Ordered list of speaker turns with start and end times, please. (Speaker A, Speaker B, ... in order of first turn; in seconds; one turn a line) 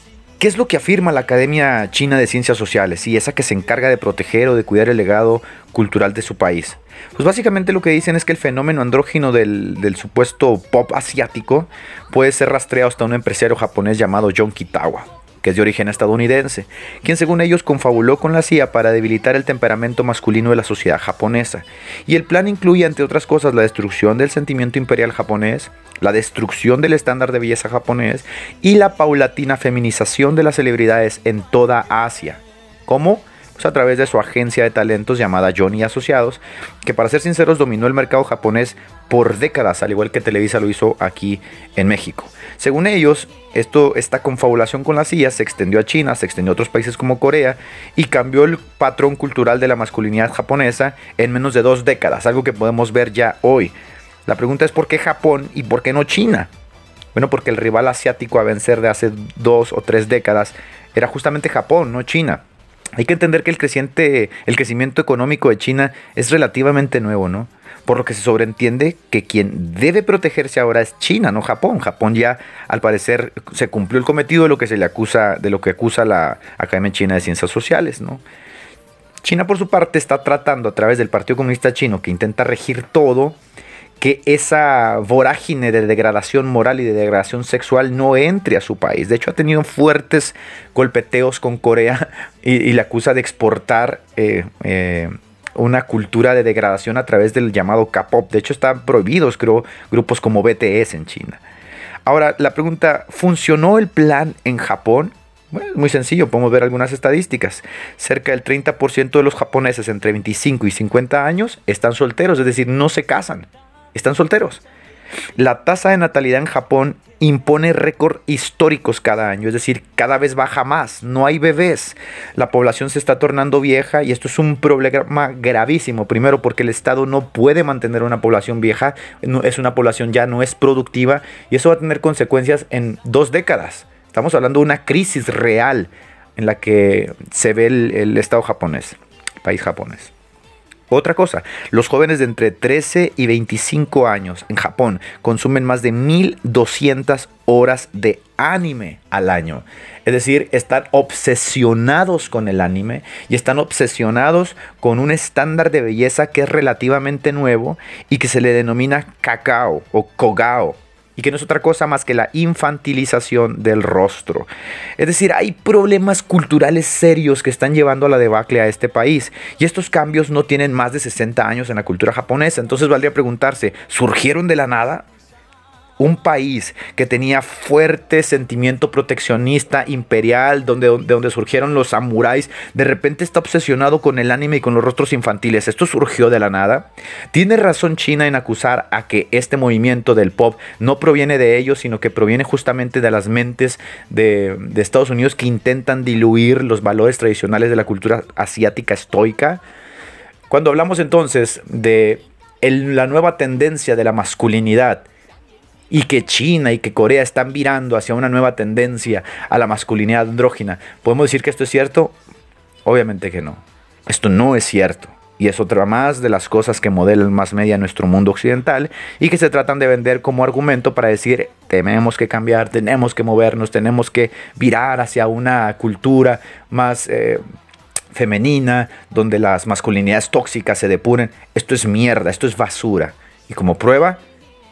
Speaker A: 0.4-53.7
Speaker A: 54.2-56.5
Speaker A: 57.1-62.4
Speaker A: 63.0-78.2
Speaker A: 79.2-83.4
Speaker A: 84.0-101.4
Speaker A: 102.0-114.6
Speaker A: 115.4-140.1
Speaker A: 140.9-175.1
Speaker A: 176.0-199.6
Speaker A: 200.5-205.1
Speaker A: 205.9-212.2
Speaker A: 212.8-227.4
Speaker A: 228.1-234.2